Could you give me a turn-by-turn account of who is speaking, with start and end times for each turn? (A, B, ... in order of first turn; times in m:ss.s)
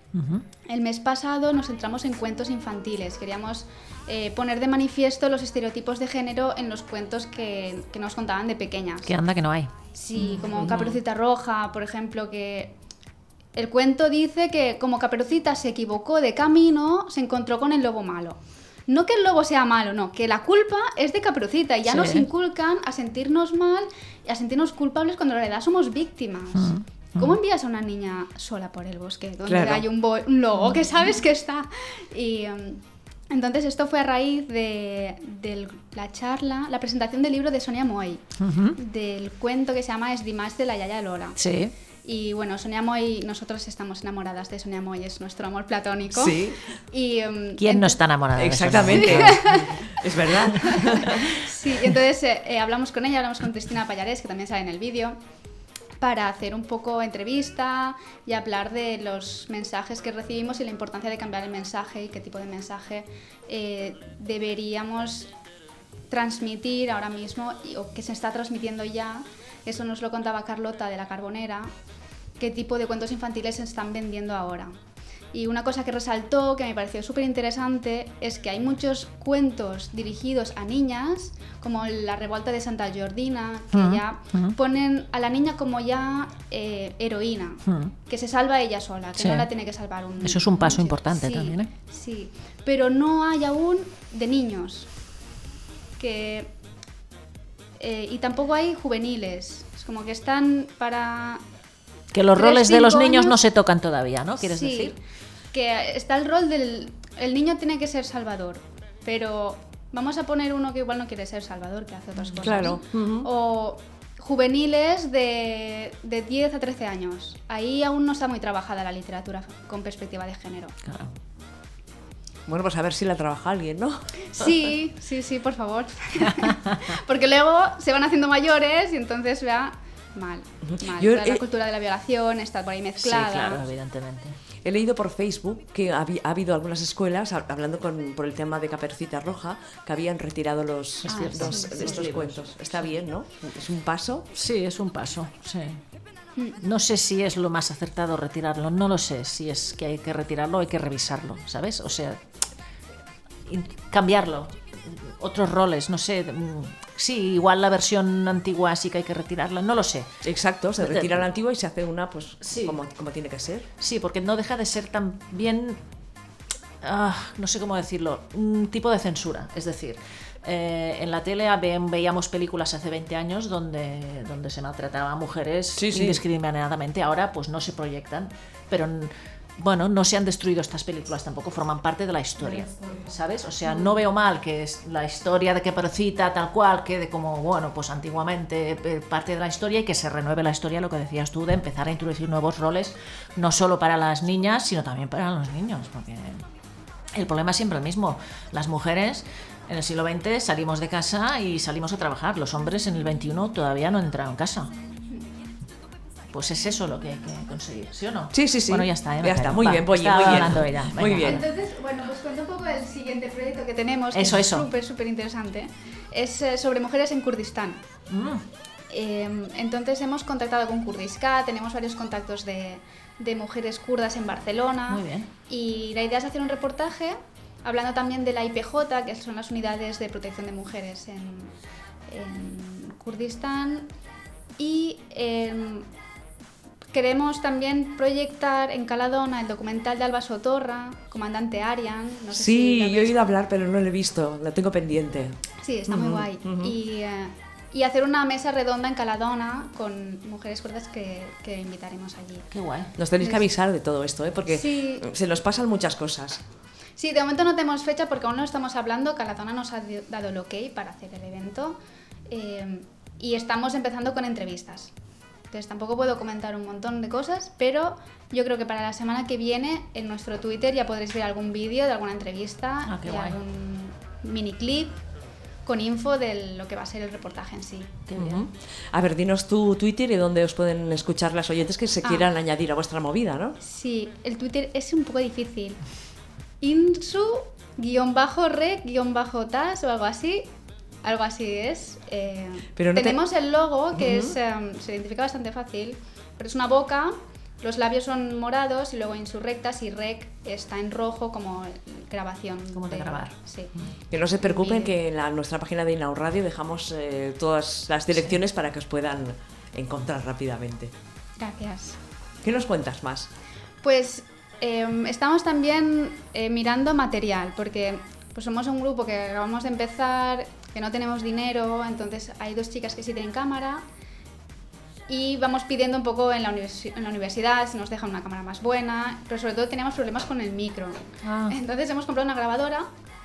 0:00.1-0:00.4 A
0:00.7-0:09.1 B
0:09.0-0:11.0 A
0:09.9-0:12.8 B
0:13.6-0:38.2 B
0:21.9-0:22.3 A
0:26.6-0:27.4 A
0:29.5-0:29.9 C
0:38.4-0:38.8 A
0:38.8-0:41.4 B
0:41.4-0:41.7 A
0:42.0-0:48.0 B
0:46.1-0:46.6 C
0:47.6-0:49.5 A
0:48.4-0:51.5 C
0:48.9-0:55.2 B
0:56.0-1:05.3 B
1:06.1-1:11.7 B
1:12.4-1:14.7 B
1:15.3-1:34.9 B
1:23.7-1:24.6 A
1:27.7-1:27.9 A
1:29.2-1:29.5 A
1:30.2-1:31.7 A
1:36.0-1:36.5 B
1:37.8-1:41.4 B
1:42.1-1:45.0 A
1:42.3-1:43.4 B
1:44.4-1:45.0 B
1:45.5-2:00.8 B
1:52.3-1:52.8 A
1:52.4-1:53.3 C
2:00.9-2:01.1 A
2:02.5-2:04.0 C
2:04.3-2:13.7 B
2:10.6-2:11.4 C
2:13.0-2:14.4 A
2:14.6-2:24.3 C
2:21.0-2:22.8 A
2:21.1-2:22.0 B
2:24.3-2:25.8 A
2:26.6-2:32.2 A
2:33.5-2:40.1 A
2:40.2-2:43.7 C
2:40.8-2:41.2 A
2:42.4-2:42.8 A
2:43.8-2:45.8 A
2:46.8-3:16.4 A
2:55.8-2:56.2 C
3:17.1-3:24.7 A
3:26.3-3:31.4 A
3:28.3-3:31.4 C
3:31.2-3:37.8 B
3:34.1-3:34.7 A
3:38.1-3:38.4 A
3:38.9-3:51.5 B
3:44.9-3:45.3 A
3:52.1-3:53.9 B
3:54.6-3:55.9 B
3:56.9-4:03.2 B
4:02.3-4:05.4 C
4:05.6-4:12.5 B
4:05.9-4:06.7 C
4:12.5-4:12.9 A
4:13.0-4:16.4 C
4:13.2-4:13.4 B
4:14.5-4:15.0 B
4:17.0-4:21.8 B
4:22.3-4:24.9 B
4:25.5-4:35.0 B
4:32.9-4:33.4 A
4:35.7-4:38.5 B
4:38.1-4:38.4 A
4:38.9-4:43.6 C
4:43.6-4:45.8 B
4:46.6-4:50.4 B
4:51.0-5:03.7 B
4:52.8-4:53.2 C
4:54.0-4:54.3 C
5:02.7-5:03.3 A
5:04.1-5:10.9 C
5:04.4-5:04.9 B
5:11.4-5:12.0 B
5:12.4-5:13.3 C
5:13.8-5:23.8 B
5:25.1-5:32.9 B
5:31.2-5:31.6 A